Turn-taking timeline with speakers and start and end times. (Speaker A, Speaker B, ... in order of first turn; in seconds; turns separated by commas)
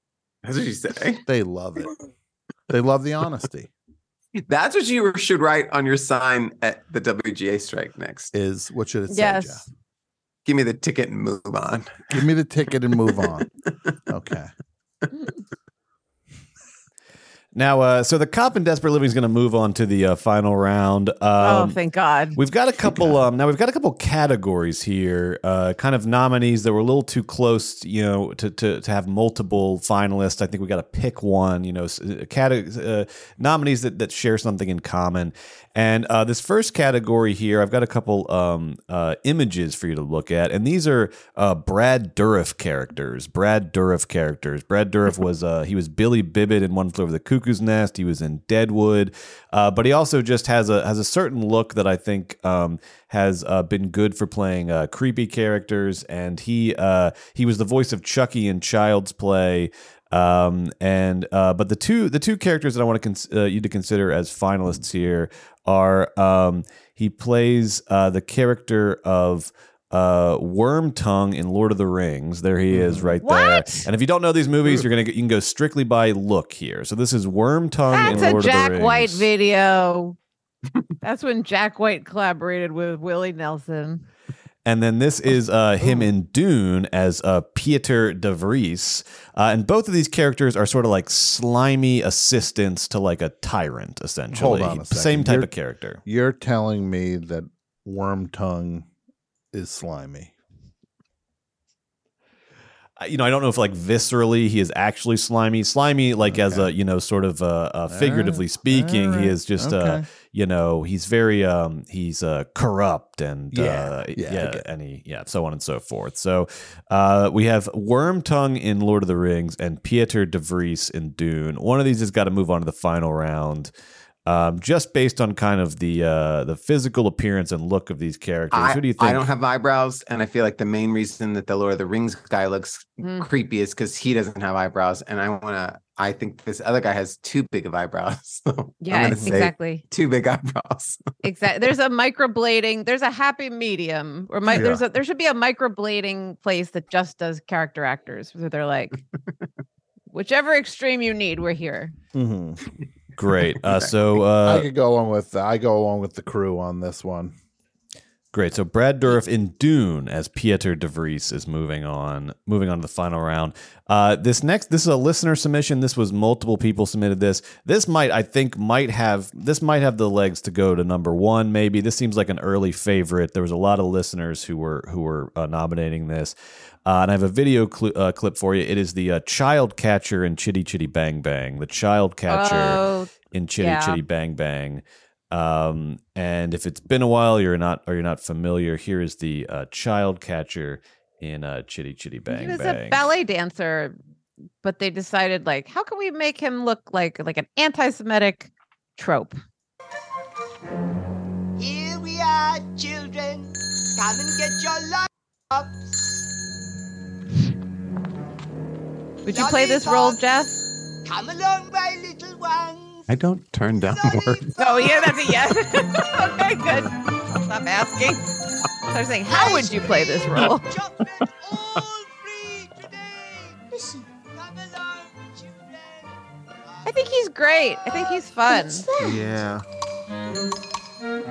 Speaker A: 0.4-1.2, Speaker B: 1.2-1.9, Speaker B: 2.7-3.7, Speaker A: 4.5-8.3, Speaker B: 8.3-9.7, Speaker C: 9.1-9.6, Speaker A: 10.4-12.2, Speaker B: 12.1-13.5, Speaker B: 14.1-14.5, Speaker D: 17.5-21.8, Speaker C: 21.4-22.4, Speaker D: 22.4-79.3, Speaker B: 22.8-23.2, Speaker B: 72.7-73.2, Speaker C: 73.2-73.8, Speaker C: 77.9-80.2, Speaker B: 78.0-78.3, Speaker C: 81.0-84.0, Speaker D: 84.6-96.0, Speaker B: 94.3-95.5, Speaker B: 96.0-98.9, Speaker B: 99.5-100.3, Speaker D: 103.0-123.7, Speaker B: 106.2-106.7, Speaker B: 107.9-110.0, Speaker B: 113.5-114.6, Speaker D: 124.2-129.3, Speaker A: 128.5-141.0, Speaker C: 133.0-133.3, Speaker C: 138.8-139.8, Speaker B: 139.1-139.3, Speaker C: 141.2-149.0, Speaker B: 144.5-144.8, Speaker C: 150.1-151.9, Speaker B: 152.1-152.6, Speaker D: 153.2-154.7, Speaker A: 153.6-153.9, Speaker B: 154.4-157.3, Speaker D: 158.3-176.3, Speaker D: 176.8-193.0, Speaker C: 182.3-184.0, Speaker C: 192.3-193.9, Speaker C: 194.6-199.4, Speaker E: 201.6-206.4, Speaker C: 209.2-210.6, Speaker E: 209.2-210.2, Speaker E: 211.1-213.1, Speaker A: 213.1-214.6, Speaker E: 213.8-215.1, Speaker C: 214.6-218.2, Speaker C: 218.9-220.7, Speaker E: 219.3-227.1, Speaker C: 226.8-228.9, Speaker E: 227.8-229.5